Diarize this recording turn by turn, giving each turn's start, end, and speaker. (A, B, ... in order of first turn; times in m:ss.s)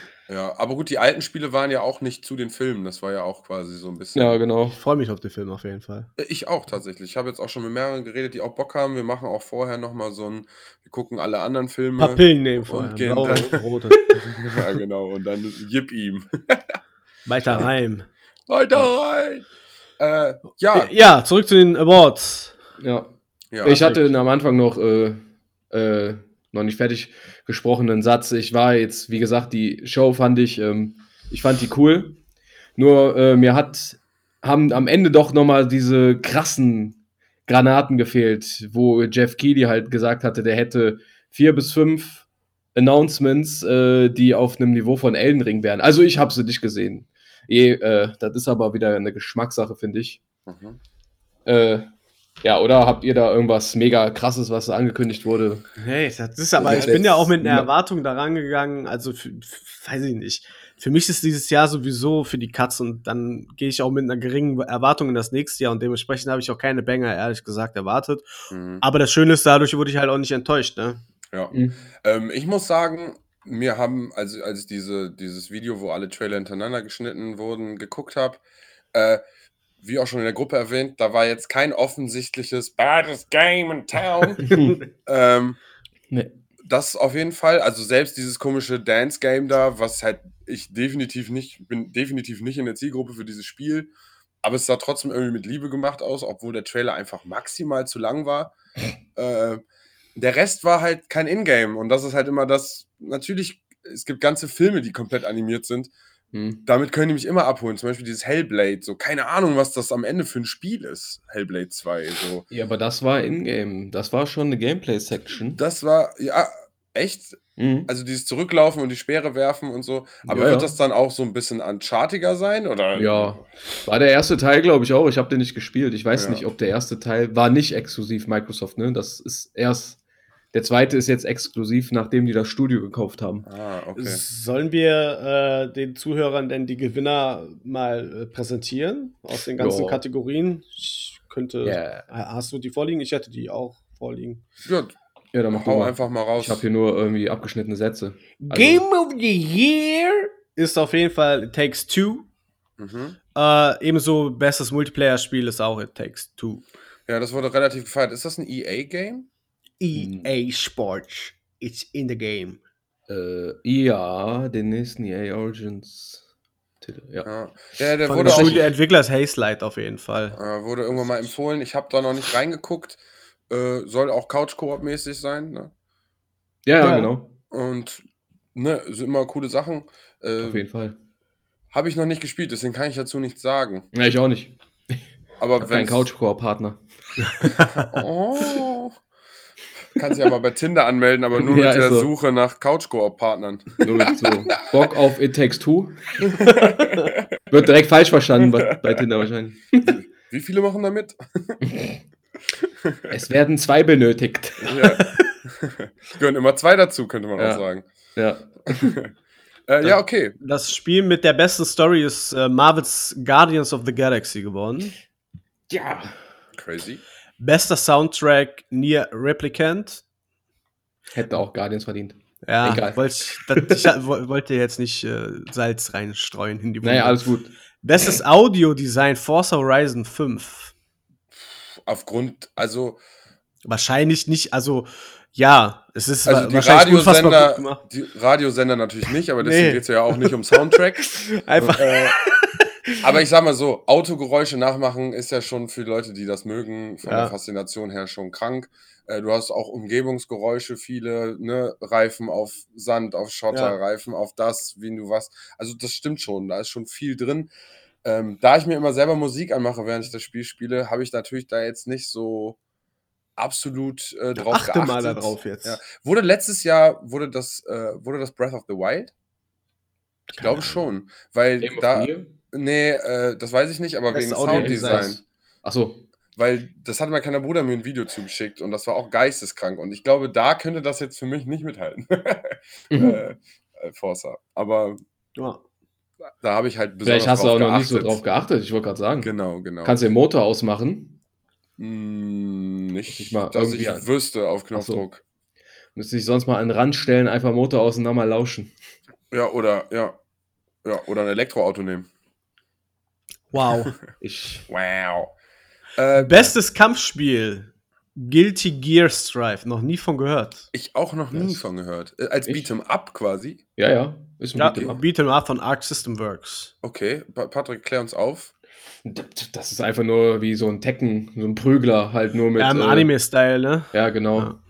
0:00.3-0:04.4 A
0:04.1-0:04.8 B
0:04.7-0:06.1 C
0:06.2-0:13.6 A
0:12.0-0:14.0 C
0:14.1-0:16.8 A
0:17.2-0:18.1 C
0:18.5-0:19.4 A
0:20.0-0:20.9 A
0:20.7-0:22.5 C
0:22.8-0:23.1 B
0:23.5-0:24.0 A
0:23.6-0:32.2 B
0:32.8-0:50.2 B
0:50.4-0:50.8 A
0:51.4-0:51.9 B
0:52.4-0:55.6 B
0:55.8-1:08.2 C
0:56.6-0:57.7 B
1:08.5-1:08.8 A
1:08.8-1:11.0 C
1:11.3-1:18.4 A
1:11.5-1:11.8 B
1:18.9-1:19.2 A
1:19.8-1:24.5 A
1:24.5-1:24.8 B
1:25.0-1:25.6 A
1:26.6-1:33.9 A
1:34.4-1:38.5 A
1:39.1-1:39.6 A
1:40.2-1:45.9 A
1:46.3-1:46.6 B
1:46.6-1:52.4 A
1:52.5-1:55.6 B
1:55.6-2:03.4 A
1:57.6-1:57.9 B
2:00.2-2:00.7 B
2:02.9-2:10.0 B
2:06.1-2:06.4 A
2:10.5-2:13.4 B
2:13.4-2:14.2 A
2:14.0-2:24.4 C
2:19.6-2:20.0 B
2:21.6-2:22.0 B
2:24.6-2:24.9 A
2:25.3-2:28.8 B
2:25.5-2:26.6 A
2:28.4-2:32.3 C
2:32.8-2:33.2 A
2:33.3-2:36.6 C
2:37.1-2:39.3 A
2:39.8-2:42.6 C
2:39.9-2:40.3 B
2:43.1-2:46.2 B
2:46.8-2:47.2 B
2:47.2-2:48.6 A
2:48.0-2:50.4 C
2:48.2-2:48.6 B
2:50.3-2:53.0 A
2:53.5-2:55.7 A
2:56.6-2:57.3 B
2:56.8-2:57.1 C
2:57.5-2:58.0 A
2:58.5-3:00.6 A
3:00.4-3:00.9 B
3:01.7-3:03.9 A
3:03.9-3:05.0 B
3:05.4-3:06.1 A
3:05.6-3:06.8 B
3:07.4-3:08.0 B
3:07.6-3:09.0 A
3:10.0-3:14.8 A
3:11.3-3:12.1 B
3:13.8-3:16.2 B
3:16.2-3:17.3 A
3:17.5-3:20.0 B
3:18.4-3:19.0 A
3:19.8-3:21.6 A
3:21.7-3:22.0 B
3:22.6-3:23.1 A
3:23.1-3:24.9 B
3:24.6-3:27.8 A
3:27.4-3:27.6 B
3:28.2-3:29.0 B
3:28.7-3:29.1 A
3:29.7-3:30.3 A
3:30.4-3:34.9 C
3:35.7-3:36.2 B
3:36.6-3:37.0 A
3:37.4-3:40.0 C
3:41.1-3:43.8 B
3:42.5-3:47.2 C
3:46.8-3:47.5 B
3:47.8-3:50.7 C
3:51.4-3:53.0 A
3:53.6-3:57.8 C
3:56.3-4:01.2 A
3:59.4-3:59.8 C
4:01.1-4:02.4 C
4:01.8-4:02.2 A
4:03.0-4:17.5 A
4:07.0-4:07.3 C
4:18.0-4:22.6 A
4:23.4-4:29.1 A
4:24.4-4:25.8 C
4:30.4-4:35.2 A
4:30.4-4:30.8 C
4:31.6-4:32.3 B
4:34.1-4:35.1 C
4:34.5-4:36.0 B
4:36.4-4:45.0 A
4:42.9-4:43.2 B
4:45.4-4:45.6 C
4:46.4-4:48.2 A
4:47.0-4:49.3 B
4:49.2-4:50.0 A
4:49.8-4:51.2 B
4:51.8-4:55.2 A
4:53.1-4:54.1 B
4:54.8-4:55.0 B
4:56.0-4:58.7 B
4:59.3-5:00.2 A
5:00.8-5:02.1 A
5:03.5-5:03.9 C
5:04.2-5:04.6 B
5:04.7-5:05.3 A
5:06.0-5:06.5 A
5:06.2-5:10.7 C
5:10.7-5:13.6 A
5:11.3-5:11.6 B
5:13.8-5:15.0 B
5:14.6-5:16.7 C
5:16.8-5:18.5 A
5:19.0-5:23.1 B
5:22.6-5:24.6 C
5:23.9-5:24.5 B